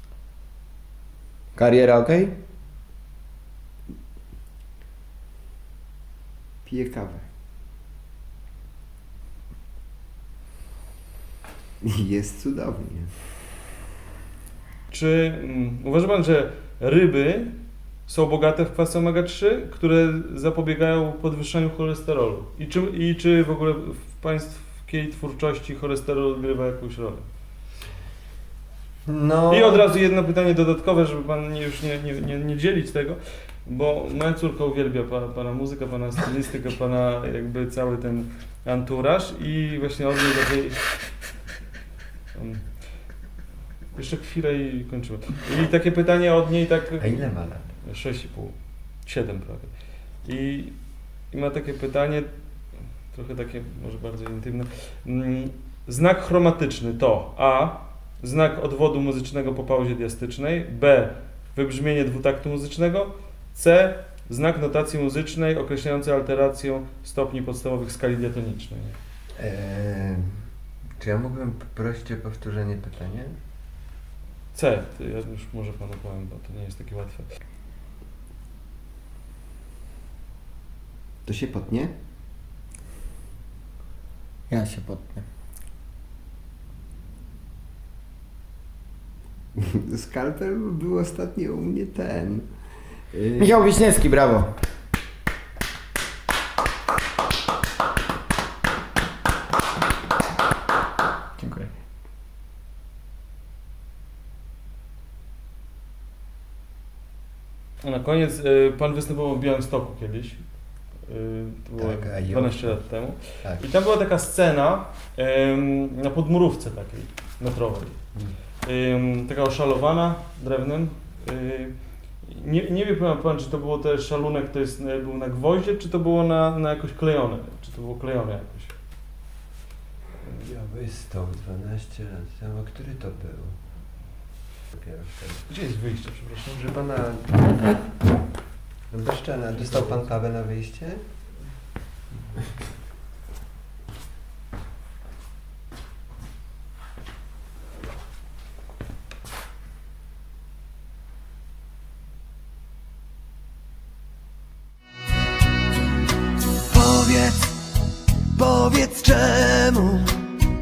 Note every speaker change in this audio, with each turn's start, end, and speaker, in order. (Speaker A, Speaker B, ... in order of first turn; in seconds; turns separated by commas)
Speaker A: 1.6-2.3, Speaker B: 6.7-7.2, Speaker B: 11.8-13.1, Speaker C: 14.9-17.6, Speaker C: 18.1-27.2, Speaker B: 29.1-29.8, Speaker C: 29.5-40.8, Speaker C: 42.4-42.7, Speaker C: 44.0-47.3, Speaker B: 47.0-47.7, Speaker C: 47.8-49.7, Speaker C: 50.2-50.8, Speaker C: 51.3-52.3, Speaker C: 53.1-69.0, Speaker B: 69.4-70.3, Speaker B: 71.0-73.3, Speaker C: 74.5-77.3, Speaker B: 81.3-81.9, Speaker A: 84.5-85.3, Speaker B: 89.6-92.5, Speaker B: 93.1-93.7, Speaker A: 93.4-94.5, Speaker A: 101.4-101.7, Speaker C: 107.8-110.5, Speaker C: 111.0-118.0, Speaker B: 111.8-112.8, Speaker C: 118.6-128.7, Speaker B: 130.3-133.6, Speaker B: 134.7-135.5, Speaker C: 135.5-136.6, Speaker B: 136.5-137.8, Speaker B: 138.9-141.0, Speaker C: 139.6-140.0, Speaker B: 156.6-157.6, Speaker B: 158.3-160.3